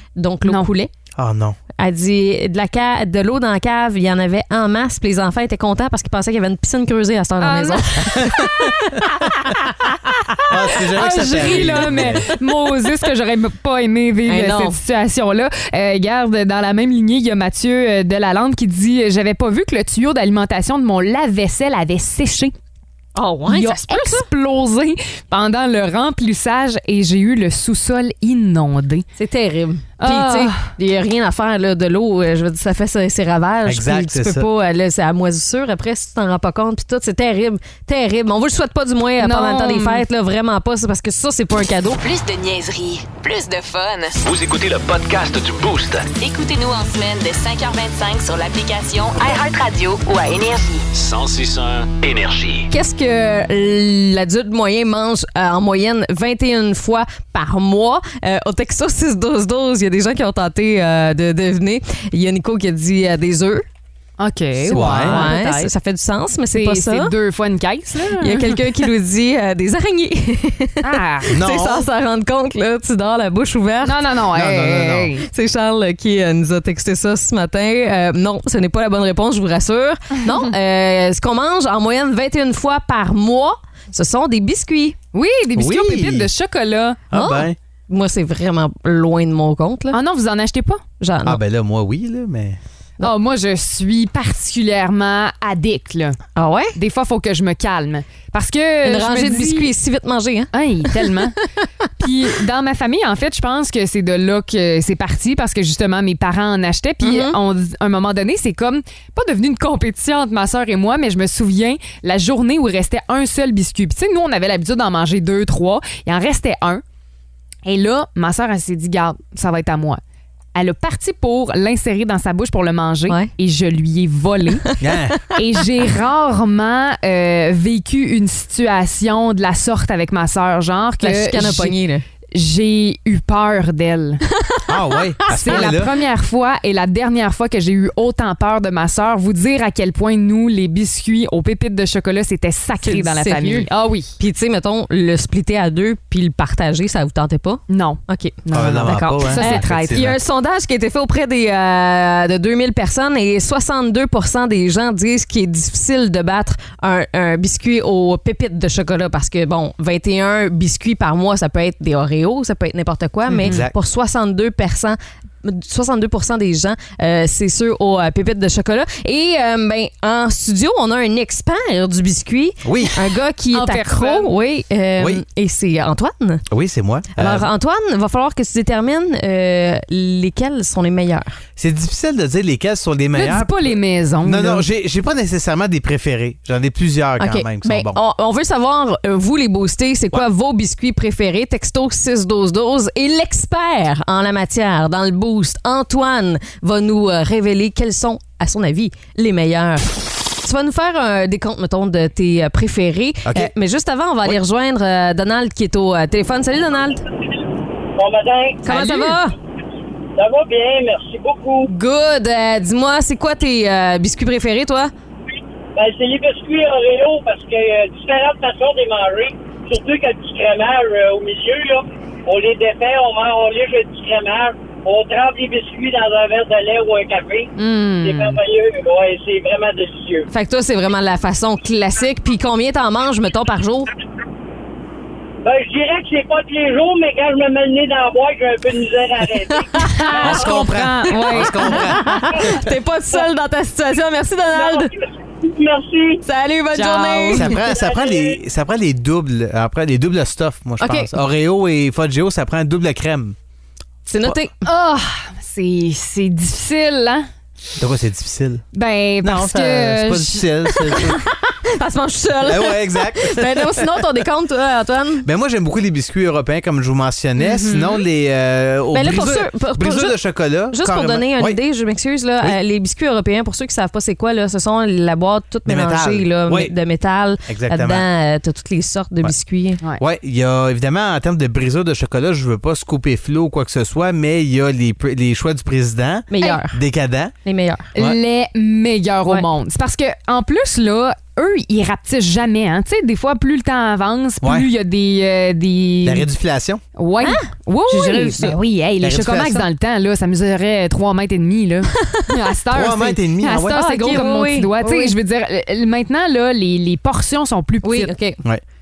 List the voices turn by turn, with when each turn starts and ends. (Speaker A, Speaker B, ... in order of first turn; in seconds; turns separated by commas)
Speaker A: 0.2-0.9, Speaker B: 0.4-0.7, Speaker C: 1.2-1.6, Speaker A: 1.8-8.7, Speaker B: 7.4-22.5, Speaker C: 10.5-12.3, Speaker A: 14.3-14.8, Speaker A: 23.2-24.3, Speaker B: 23.5-29.1, Speaker A: 29.2-42.0, Speaker B: 30.0-30.7, Speaker C: 33.7-34.5, Speaker B: 39.2-40.0, Speaker D: 42.0-44.2, Speaker E: 44.2-46.1, Speaker D: 46.1-50.8, Speaker E: 50.9-52.7, Speaker A: 52.7-63.7, Speaker B: 64.2-65.7, Speaker A: 64.7-67.2, Speaker C: 64.7-65.3, Speaker B: 66.4-68.9, Speaker A: 68.2-74.2, Speaker B: 70.8-71.3, Speaker C: 71.3-71.9, Speaker B: 73.8-75.2, Speaker C: 74.3-75.2, Speaker A: 75.3-85.0, Speaker B: 85.1-87.0, Speaker C: 85.6-86.3, Speaker C: 87.1-87.6, Speaker A: 87.1-90.0, Speaker B: 89.9-90.8, Speaker A: 91.0-91.4, Speaker C: 91.3-92.6, Speaker B: 93.0-96.2, Speaker A: 96.4-96.8, Speaker B: 96.8-99.7, Speaker A: 98.8-101.1, Speaker B: 100.5-101.4, Speaker B: 102.0-116.8, Speaker A: 107.0-107.4, Speaker B: 117.7-120.0, Speaker B: 120.5-124.8, Speaker C: 124.8-125.2, Speaker B: 125.3-131.8, Speaker A: 131.0-132.1, Speaker B: 132.3-134.2, Speaker A: 134.4-135.8, Speaker C: 134.7-135.9, Speaker B: 135.3-144.1, Speaker A: 142.8-148.4, Speaker B: 147.7-150.1, Speaker C: 148.5-150.2, Speaker A: 149.3-176.5, Speaker B: 163.3-163.6, Speaker C: 163.4-163.8, Speaker C: 172.6-173.1, Speaker B: 173.5-174.3, Speaker C: 176.5-177.5, Speaker A: 177.2-181.4, Speaker C: 181.6-188.0, Speaker B: 183.1-184.6, Speaker A: 187.2-207.0, Speaker C: 203.2-203.5, Speaker F: 208.0-208.6, Speaker A: 208.7-209.3, Speaker B: 208.7-209.2, Speaker F: 210.2-211.7, Speaker A: 211.7-214.9, Speaker F: 215.8-230.3, Speaker B: 227.6-228.4, Speaker A: 230.3-233.9, Speaker F: 235.4-240.6, Speaker A: 239.7-240.2, Speaker B: 239.8-242.5, Speaker C: 240.2-242.6, Speaker A: 241.1-244.9, Speaker F: 244.5-246.2, Speaker A: 246.2-247.6, Speaker B: 246.7-247.6, Speaker C: 247.3-253.4, Speaker F: 247.6-248.4, Speaker B: 250.8-251.1, Speaker A: 254.1-254.7, Speaker B: 254.7-257.3, Speaker C: 257.8-258.6, Speaker B: 258.7-260.4, Speaker C: 259.2-261.2, Speaker A: 260.9-265.3, Speaker C: 262.4-264.1, Speaker C: 265.2-271.6, Speaker A: 267.5-267.9, Speaker B: 267.5-267.9, Speaker A: 268.9-270.2, Speaker A: 270.7-279.8, Speaker C: 275.7-276.7, Speaker C: 277.5-278.1, Speaker C: 280.0-287.3, Speaker A: 286.3-286.8, Speaker A: 287.4-287.9, Speaker B: 287.9-296.3, Speaker C: 294.4-294.7, Speaker C: 296.0-296.8, Speaker B: 297.0-308.1, Speaker A: 297.2-298.6, Speaker C: 299.0-299.7, Speaker C: 302.7-304.1, Speaker A: 303.7-305.2, Speaker A: 307.8-308.4